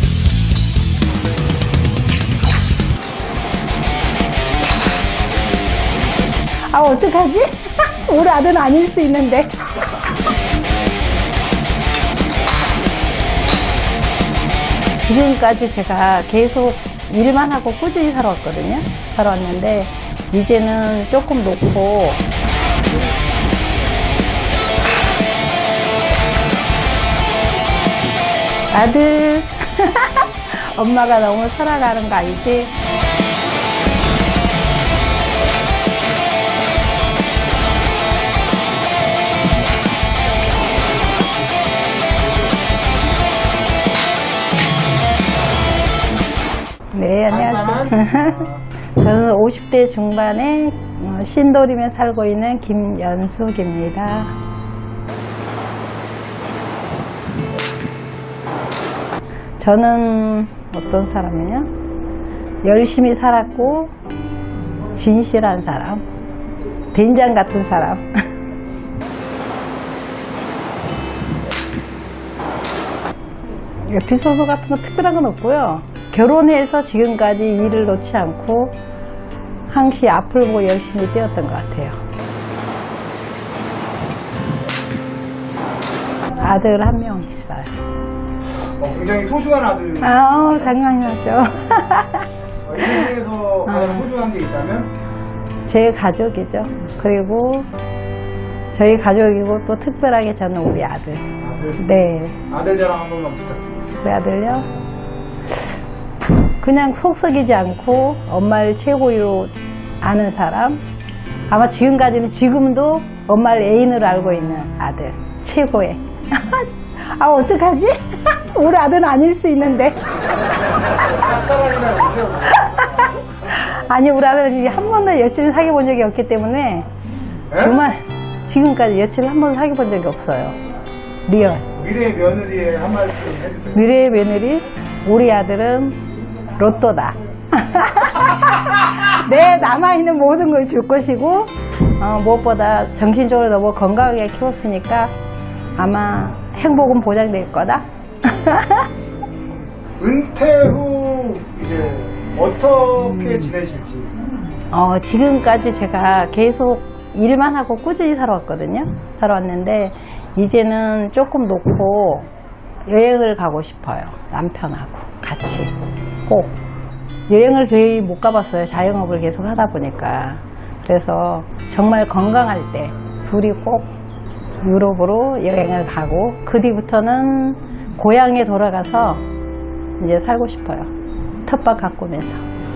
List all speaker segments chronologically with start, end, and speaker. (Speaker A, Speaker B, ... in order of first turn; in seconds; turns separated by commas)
Speaker A: 6.7-9.7, Speaker A: 15.0-22.2, Speaker A: 28.7-32.7, Speaker A: 46.9-48.5, Speaker B: 47.3-48.6, Speaker A: 49.0-54.4, Speaker A: 59.6-61.7, Speaker A: 62.6-63.9, Speaker A: 64.9-66.0, Speaker A: 66.9-68.0, Speaker A: 73.8-78.8, Speaker A: 79.7-82.0, Speaker A: 86.3-87.7, Speaker B: 88.5-90.8, Speaker A: 90.0-92.3, Speaker B: 92.7-94.9, Speaker A: 92.8-93.1, Speaker A: 93.7-94.1, Speaker A: 95.7-97.7, Speaker A: 98.7-101.3, Speaker B: 101.4-104.0, Speaker A: 101.8-102.4, Speaker A: 104.0-104.7, Speaker A: 106.2-110.8, Speaker A: 111.5-120.0, Speaker B: 120.9-123.1, Speaker A: 122.6-126.9, Speaker A: 127.5-130.6, Speaker B: 127.5-127.8, Speaker A: 131.3-131.7, Speaker B: 131.7-133.9, Speaker A: 133.7-145.1, Speaker A: 145.8-148.9, Speaker B: 150.0-154.1, Speaker A: 153.2-153.5, Speaker A: 154.7-162.3, Speaker A: 162.9-165.7, Speaker A: 166.2-166.6, Speaker A: 167.3-173.9, Speaker A: 174.6-179.2, Speaker A: 180.0-180.9, Speaker A: 181.4-182.4